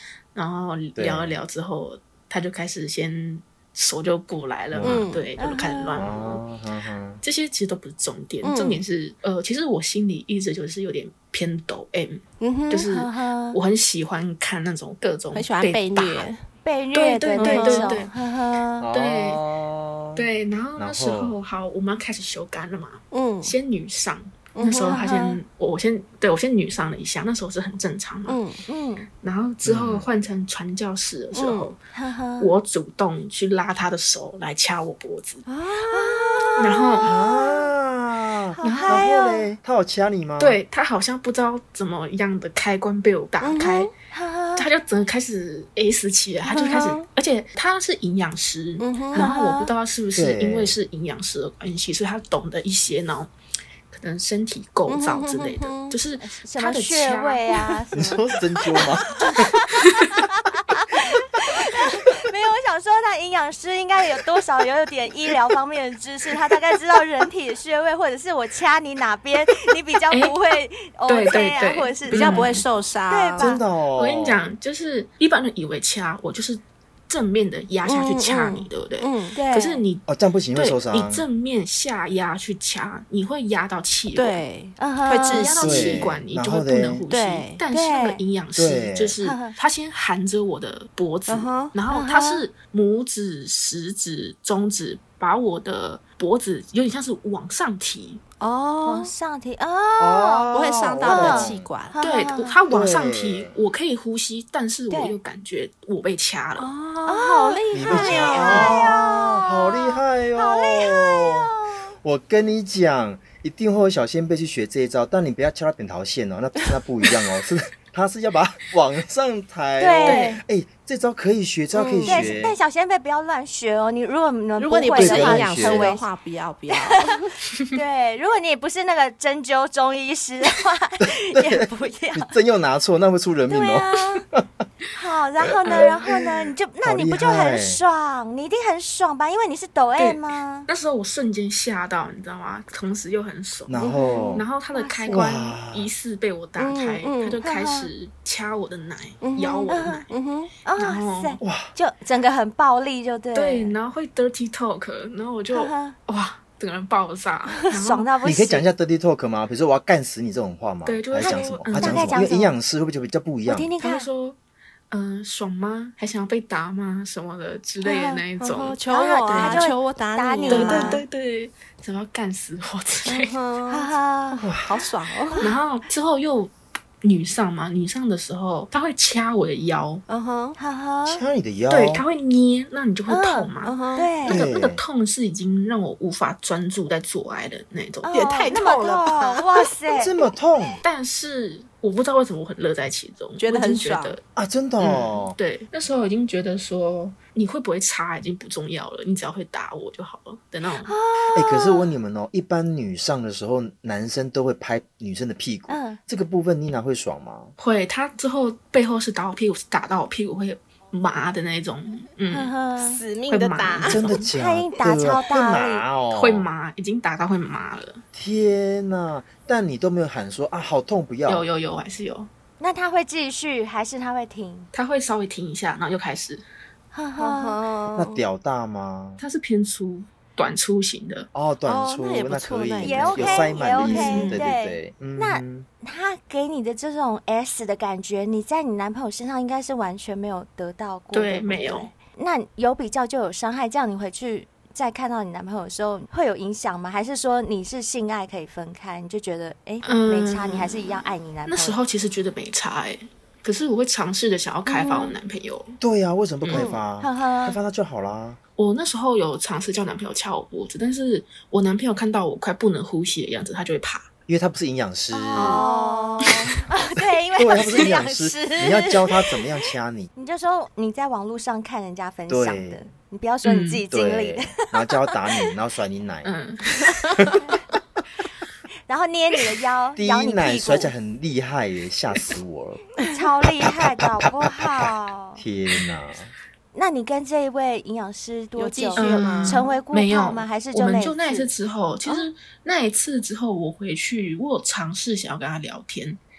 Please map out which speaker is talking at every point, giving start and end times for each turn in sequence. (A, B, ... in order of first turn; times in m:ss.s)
0:00.4-0:06.4 A
0:01.0-0:01.4 B
0:04.7-0:05.1 B
0:04.8-0:05.2 C
0:05.4-0:06.0 D
0:06.0-0:07.2 B
0:07.2-0:16.3 A
0:08.4-0:08.8 C
0:12.4-0:12.9 C
0:12.9-0:13.6 D
0:15.3-0:16.4 C
0:16.6-0:18.9 D
0:16.9-0:18.1 A
0:17.4-0:18.0 C
0:18.8-0:20.2 B
0:18.9-0:19.4 A
0:20.1-0:28.4 A
0:20.8-0:21.4 B
0:23.1-0:23.5 C
0:24.6-0:25.1 C
0:24.8-0:25.4 D
0:28.3-0:28.6 C
0:28.7-0:29.1 D
0:29.2-0:31.8 A
0:29.6-0:30.0 B
0:31.3-0:31.7 C
0:31.9-0:32.5 D
0:32.4-0:35.4 A
0:35.5-0:36.6 C
0:35.8-0:37.7 D
0:36.6-0:37.1 A
0:37.0-0:40.6 B
0:38.6-0:39.5 D
0:38.6-0:39.0 A
0:40.4-0:43.9 A
0:43.4-0:43.9 C
0:44.1-0:44.6 D
0:44.6-0:53.3 A
0:46.5-0:47.0 C
0:48.8-0:49.3 C
0:49.1-0:49.7 D
0:50.1-0:50.8 B
0:53.9-0:57.4 A
0:54.9-0:56.0 C
0:56.2-1:12.6 D
0:57.9-0:59.5 B
1:11.1-1:12.6 A
1:12.1-1:13.6 C
1:13.1-1:13.6 D
1:13.4-1:14.4 B
1:14.0-1:24.4 A
1:17.9-1:19.4 C
1:19.4-1:19.8 D
1:20.1-1:21.2 B
1:24.2-1:26.0 C
1:24.8-1:25.5 D
1:25.2-1:38.2 A
1:25.6-1:27.0 B
1:27.1-1:27.6 C
1:27.7-1:28.2 D
1:28.6-1:29.2 B
1:29.2-1:29.6 D
1:31.3-1:31.7 C
1:31.9-1:32.4 D
1:38.4-1:39.1 C
1:38.8-1:40.5 D
1:40.0-1:41.7 B
1:40.5-1:42.0 C
1:41.0-1:42.6 D
1:42.0-1:46.7 A
1:42.7-1:43.5 B
1:46.6-1:48.9 C
1:47.1-1:51.9 D
1:47.7-1:51.5 B
1:52.0-2:02.6 B
1:59.8-2:00.4 D
2:00.1-2:00.4 A
2:01.8-2:06.1 D
2:01.9-2:02.3 C
2:04.6-2:07.3 C
2:04.9-2:06.0 B
2:06.7-2:07.1 D
2:07.7-2:12.3 D
2:11.0-2:14.6 B
2:13.5-2:14.2 D
2:14.9-2:20.7 D
2:15.5-2:16.1 B
2:16.8-2:17.8 B
2:20.0-2:30.1 A
2:23.7-2:24.4 B
2:23.8-2:25.3 D
2:25.1-2:25.9 B
2:26.6-2:27.4 C
2:27.4-2:27.9 D
2:29.2-2:30.5 C
2:29.7-2:30.1 D
2:30.6-2:33.7 D
2:30.8-2:31.4 A
2:31.4-2:31.7 B
2:33.3-2:38.1 A
2:35.5-2:36.0 D
2:37.7-2:38.6 D
2:38.2-2:43.7 B
2:40.8-2:42.2 A
2:41.7-2:42.6 D
2:43.4-2:44.1 D
2:43.8-2:44.4 A
2:44.9-2:49.7 A
2:47.8-2:48.2 D
2:48.4-2:51.0 C
2:48.9-2:51.0 D
2:50.5-2:53.4 A
2:53.1-2:55.4 C
2:53.7-2:54.5 D
2:54.4-2:54.7 B
2:55.4-3:00.0 A
3:00.1-3:00.6 C
3:00.6-3:01.2 D
3:01.1-3:02.0 B
3:01.7-3:08.1 A
3:03.1-3:04.4 D
3:03.6-3:04.1 C
3:04.2-3:04.8 B
3:08.0-3:10.1 D
3:08.1-3:09.7 C
3:09.9-3:10.8 B
3:10.8-3:14.2 A
3:13.4-3:14.2 C
3:14.4-3:15.4 B
3:14.8-3:20.9 A
3:20.9-3:21.9 D
3:21.3-3:27.5 B
3:25.7-3:26.0 D
3:27.6-3:32.5 A
3:32.3-3:33.0 D
3:32.8-3:34.0 C
3:33.3-3:34.3 A
3:33.8-3:36.5 B
3:34.3-3:35.8 D
3:36.1-3:38.0 A
3:38.1-3:41.4 B
3:41.3-3:42.3 A
3:42.6-3:44.7 D
3:44.7-3:46.4 A
3:46.9-3:47.6 D
3:47.2-3:48.2 C
3:47.9-3:49.2 B
3:49.2-3:51.3 A
3:51.3-3:55.6 B
3:51.6-3:54.4 C
3:52.8-4:11.8 D
3:54.0-3:54.4 A
4:01.1-4:01.9 A
4:09.8-4:15.8 A
4:14.7-4:15.1 D
4:15.8-4:18.4 B
4:16.4-4:16.7 A
4:16.5-4:17.6 D
4:18.6-4:24.1 A
4:24.3-4:25.6 B
4:25.1-4:29.0 D
4:25.4-4:26.3 C
4:27.4-4:30.1 B
4:30.2-4:34.7 D
4:32.3-4:32.9 B
4:33.4-4:33.8 A
4:33.9-4:36.3 B
4:36.2-4:37.4 A
4:38.9-4:40.9 D
4:40.0-4:42.9 B
4:43.1-4:45.4 D
4:43.4-4:46.3 B
4:46.7-4:51.5 D
4:48.6-4:49.6 C
4:49.0-4:56.2 A